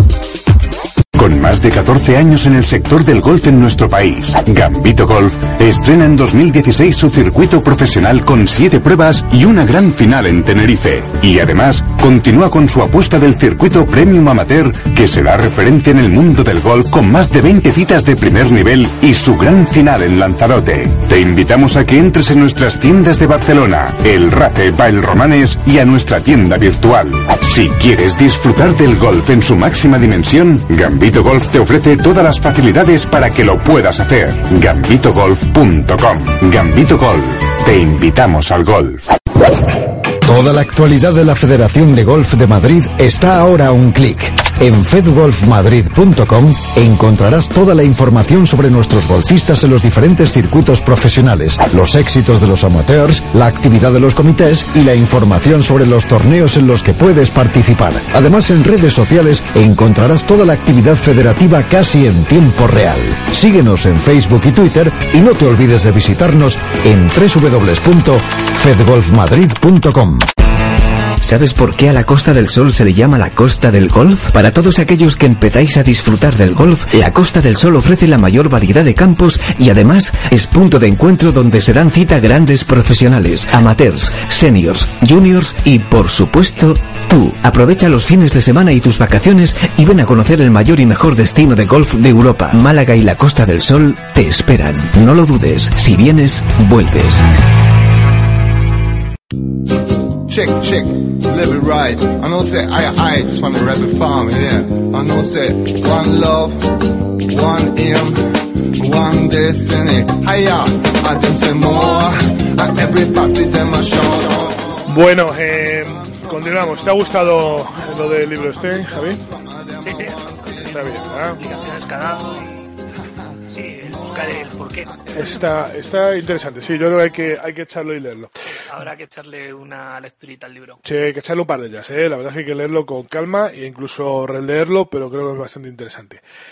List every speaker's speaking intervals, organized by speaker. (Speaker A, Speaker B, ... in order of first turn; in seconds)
Speaker A: 1.1-39.0
Speaker B: 40.2-70.3
Speaker C: 71.2-97.2
Speaker D: 100.2-114.8, 116.1-116.7, 118.8-121.1
Speaker E: 114.9-119.2, 120.6-121.4, 125.1-128.3, 130.8-136.2
Speaker F: 119.8-120.2, 121.4-122.7, 123.5-125.0, 128.5-130.8